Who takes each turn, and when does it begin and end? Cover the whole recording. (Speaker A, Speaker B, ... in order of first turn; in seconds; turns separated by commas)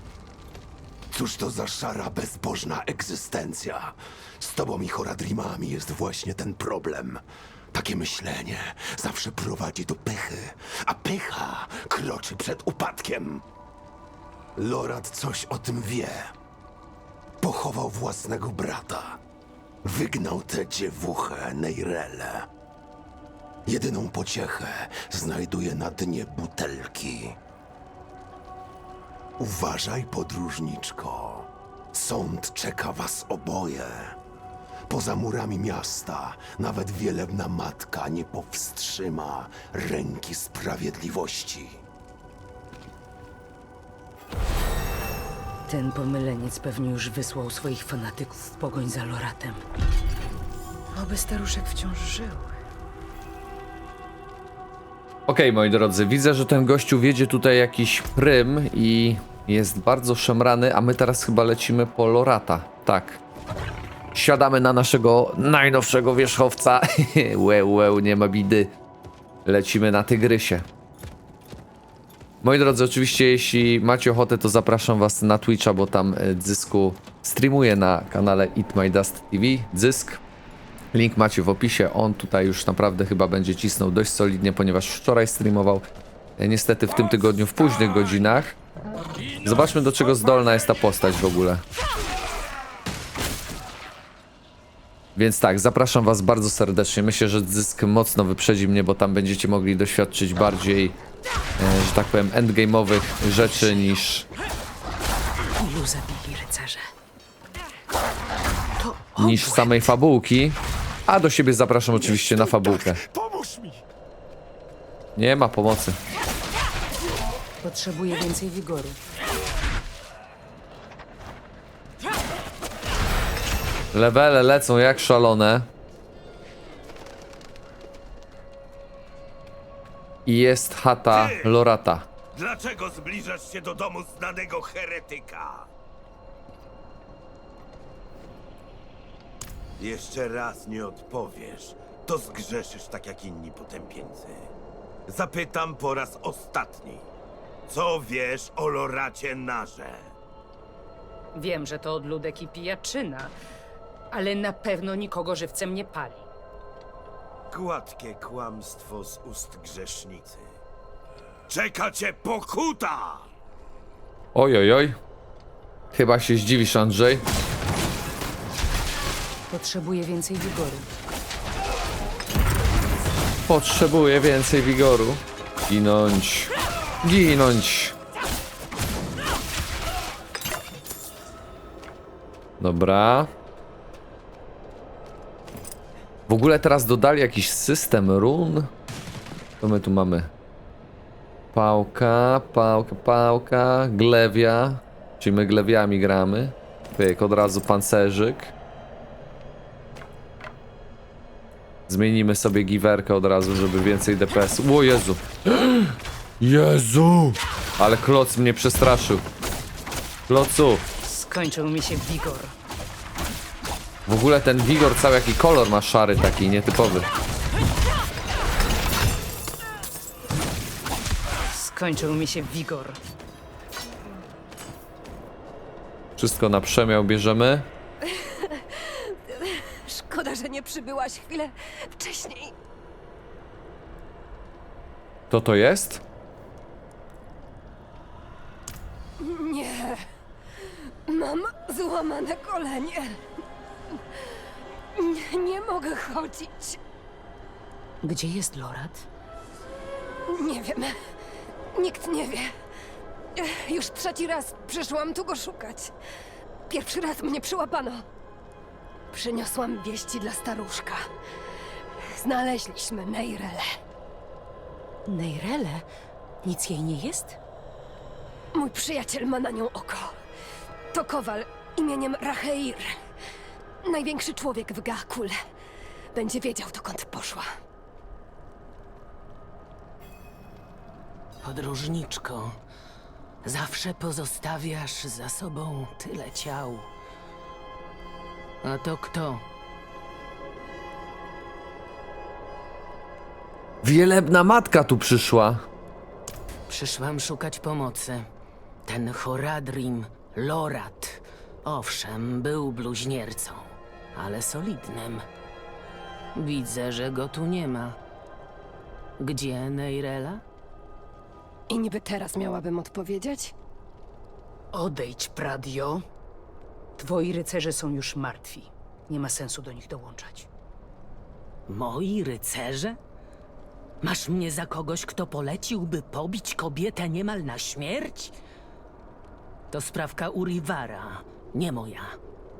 Speaker A: 1.1-7.2, Speaker A: 7.7-13.4, Speaker A: 14.6-16.3, Speaker A: 17.4-19.2, Speaker A: 19.8-22.5, Speaker A: 23.7-27.4, Speaker A: 29.4-34.2, Speaker A: 34.9-41.8, Speaker B: 45.7-49.6, Speaker B: 50.9-52.5, Speaker C: 55.3-63.2, Speaker C: 64.1-68.7, Speaker C: 69.5-70.7, Speaker C: 72.4-80.2, Speaker C: 80.9-85.9, Speaker C: 86.4-88.5, Speaker C: 89.4-91.6, Speaker C: 95.2-101.0, Speaker C: 101.6-104.3, Speaker B: 105.6-106.9, Speaker B: 108.8-109.9, Speaker C: 109.2-113.0, Speaker A: 112.6-113.8, Speaker C: 115.2-116.0, Speaker B: 117.6-119.0, Speaker C: 123.9-125.7, Speaker C: 130.3-132.1, Speaker D: 131.1-131.6, Speaker D: 132.3-135.7, Speaker D: 139.8-144.5, Speaker D: 145.1-147.1, Speaker D: 147.7-150.1, Speaker B: 151.3-153.3, Speaker B: 154.1-156.2, Speaker D: 157.5-160.5, Speaker D: 161.5-163.3, Speaker C: 164.3-165.0, Speaker C: 165.9-167.2, Speaker B: 169.5-170.9, Speaker C: 173.5-176.5, Speaker C: 177.0-177.9, Speaker C: 182.6-183.3, Speaker C: 186.3-188.7, Speaker C: 189.6-190.3, Speaker C: 191.5-198.5, Speaker C: 201.9-209.3, Speaker C: 210.3-210.8, Speaker B: 211.0-212.5, Speaker C: 214.1-217.1, Speaker B: 221.5-223.0, Speaker C: 226.2-227.7, Speaker E: 228.1-232.5, Speaker C: 235.3-236.0, Speaker E: 239.2-240.0, Speaker E: 241.1-243.2, Speaker E: 244.9-246.8, Speaker B: 248.0-249.1, Speaker E: 250.3-251.0, Speaker E: 251.8-252.5, Speaker E: 253.4-255.9, Speaker E: 256.7-258.1, Speaker E: 259.1-261.1, Speaker E: 262.2-263.6, Speaker B: 265.1-265.9, Speaker B: 266.4-267.4, Speaker E: 268.5-270.1, Speaker E: 270.9-273.0, Speaker E: 273.8-275.4, Speaker E: 276.1-277.5, Speaker F: 281.4-282.6, Speaker F: 283.4-286.9, Speaker F: 288.6-289.4, Speaker C: 293.8-295.6, Speaker F: 296.7-298.3, Speaker F: 298.9-305.2, Speaker F: 306.4-308.0, Speaker F: 309.2-310.4, Speaker E: 311.7-313.6, Speaker B: 314.7-316.0, Speaker B: 317.0-320.5, Speaker F: 321.7-323.0, Speaker F: 324.0-328.4, Speaker F: 329.7-332.2